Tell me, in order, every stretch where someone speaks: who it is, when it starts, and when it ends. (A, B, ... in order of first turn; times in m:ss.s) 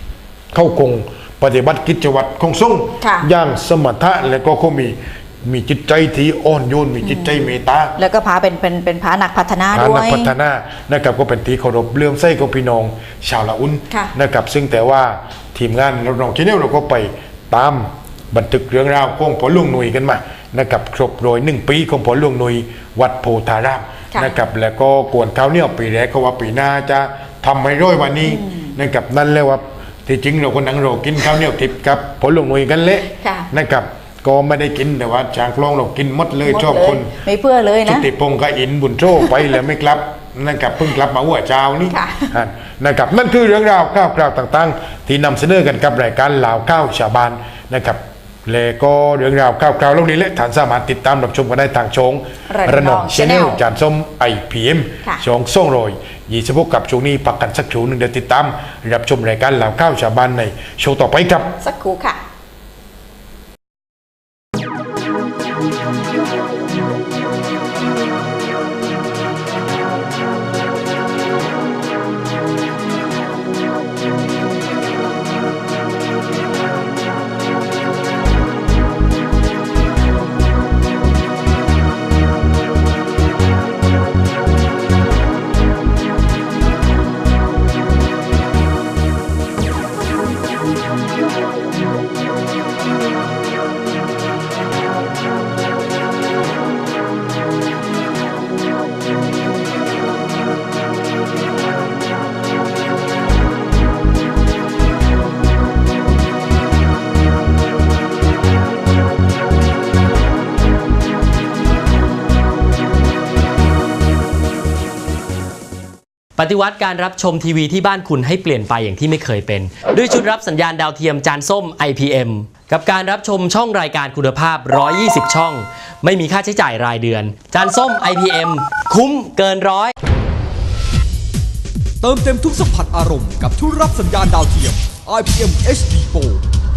0:00.5-0:07.9 A
0:03.0-0:03.3 B
0:07.0-0:07.4 B
0:08.0-0:10.3 B
0:09.7-0:37.1 A
0:28.2-0:28.7 B
0:33.2-0:33.5 B
0:36.4-0:38.0 B
0:37.8-1:01.5 A
0:41.9-0:42.3 B
0:52.5-0:53.6 B
1:01.6-1:02.2 B
1:56.4-2:09.9 C
2:12.0-2:16.4 D